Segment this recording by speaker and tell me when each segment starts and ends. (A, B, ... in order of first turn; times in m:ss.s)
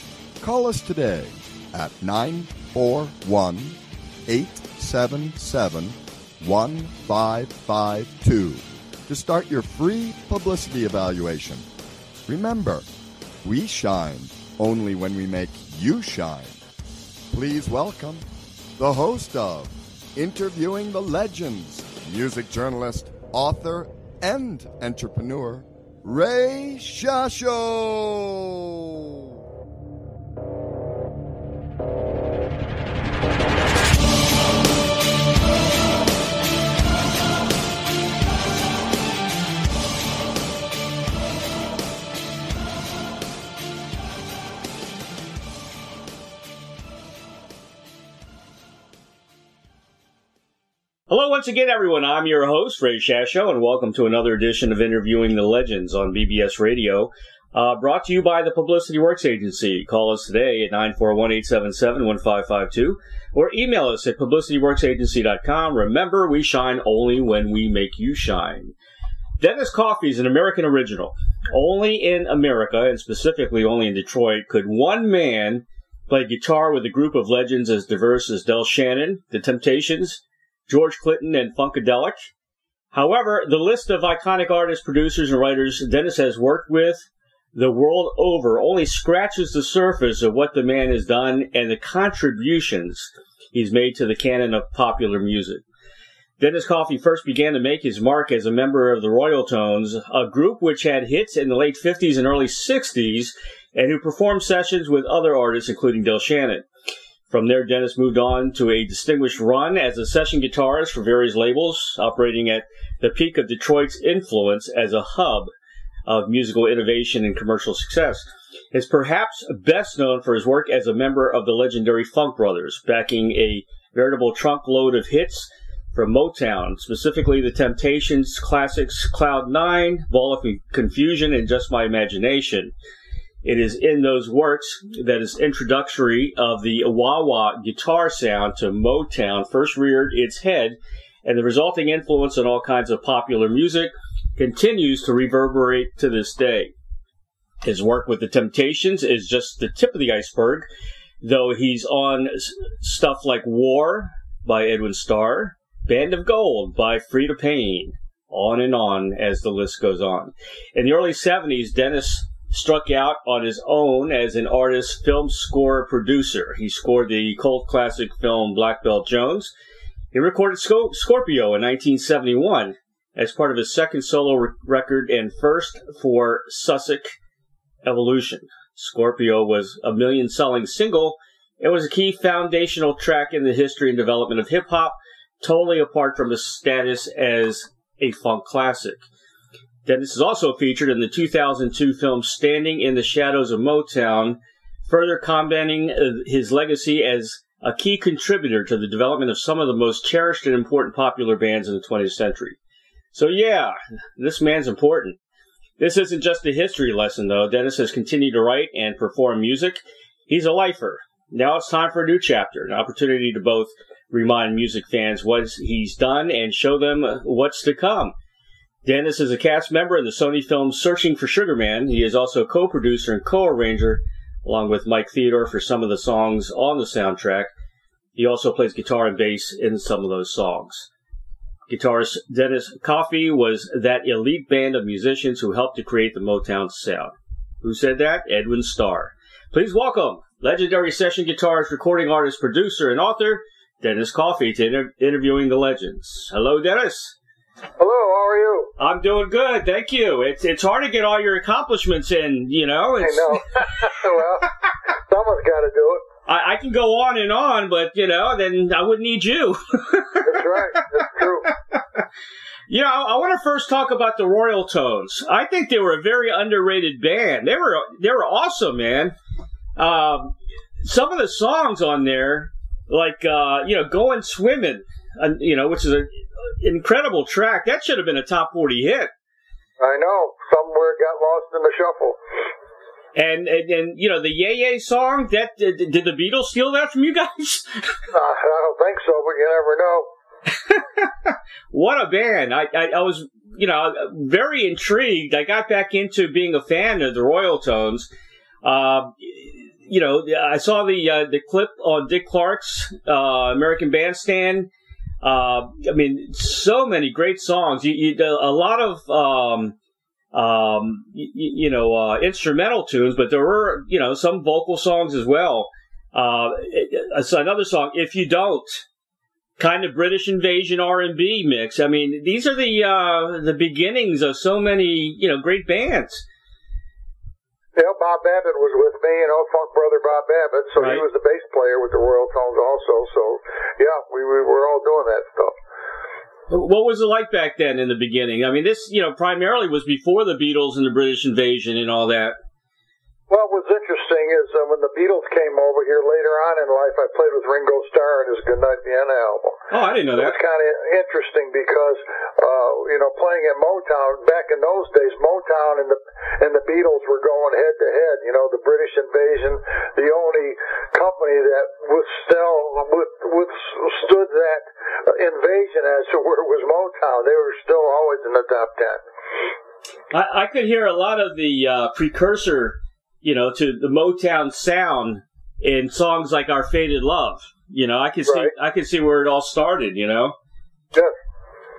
0:00.4-0:11.6 A
0:12.2-0:12.8 A
0:13.4-0:16.6 A
0:17.3-0:18.2 A
0:18.8-0:29.1 A
0:51.1-1:08.7 B
1:09.4-1:22.3 B
1:22.9-1:35.6 B
1:36.4-1:46.6 B
1:47.3-1:55.5 B
1:56.0-2:12.7 B
2:13.4-2:26.7 B
2:27.6-2:30.7 B
2:31.2-2:49.5 B
2:50.1-2:57.1 B
2:57.8-3:09.0 B
3:09.8-3:22.6 B
3:23.1-3:25.2 B
3:25.8-3:38.1 B
3:38.8-3:47.5 B
3:48.2-3:50.9 B
3:51.7-4:07.1 B
4:07.8-4:08.7 C
4:08.8-4:13.9 B
4:13.0-4:16.0 C
4:16.3-4:22.0 B
4:20.2-4:21.5 C
4:22.7-4:29.1 B
4:29.8-4:39.1 B
4:39.8-4:42.2 C
4:43.1-4:48.0 B
4:48.1-4:50.1 C
4:50.5-4:58.1 B
4:58.6-5:04.7 B
5:05.2-5:09.7 B
5:10.3-5:18.8 B
5:19.6-5:26.2 B
5:27.8-5:35.5 C
5:30.8-5:31.0 B
5:36.5-5:42.3 B
5:43.3-5:49.6 C
5:49.7-5:50.4 B
5:50.2-6:09.0 C
6:10.1-6:20.3 B
6:18.2-6:18.5 C